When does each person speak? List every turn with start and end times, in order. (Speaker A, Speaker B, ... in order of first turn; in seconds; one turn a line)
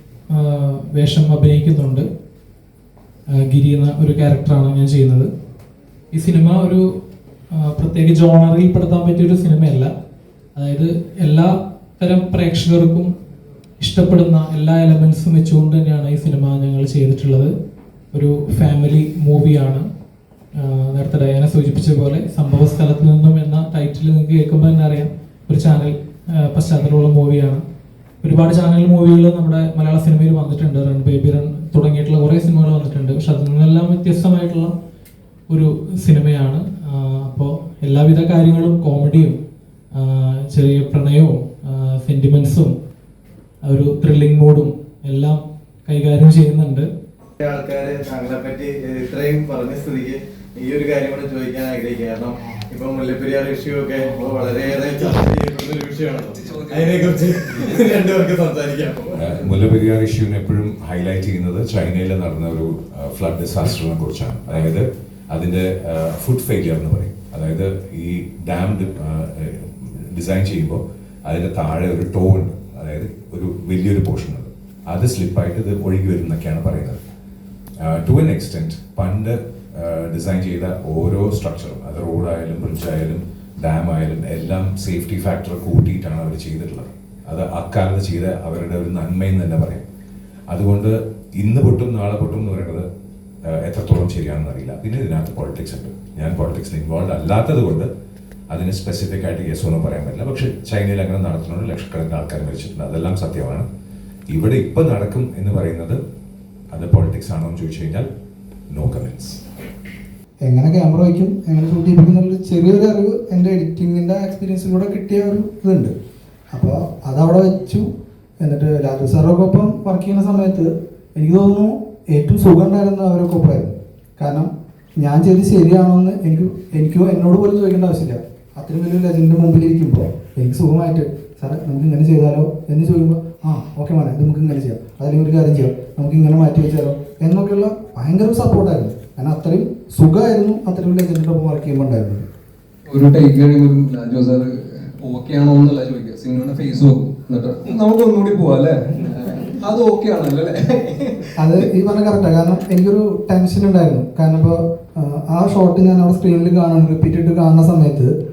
Speaker A: 0.3-2.1
Speaker A: 3.3-5.3
Speaker A: 6.1-6.8
Speaker A: 7.6-9.9
Speaker A: 10.6-13.1
Speaker A: 13.8-17.5
Speaker A: 18.1-19.8
Speaker A: 20.6-27.6
Speaker A: 28.2-34.7
Speaker A: 35.5-39.4
Speaker A: 39.9-42.7
Speaker A: 43.6-46.9
Speaker B: 47.4-59.5
Speaker C: 56.3-58.0
Speaker D: 59.1-77.0
Speaker D: 77.8-89.8
Speaker D: 90.5-92.8
Speaker D: 93.6-97.9
Speaker D: 98.5-103.7
Speaker D: 104.3-106.0
Speaker D: 106.7-108.1
Speaker D: 108.7-109.4
Speaker E: 110.5-115.9
Speaker E: 116.5-117.9
Speaker E: 118.4-142.2
Speaker C: 142.9-151.3
Speaker E: 151.4-158.1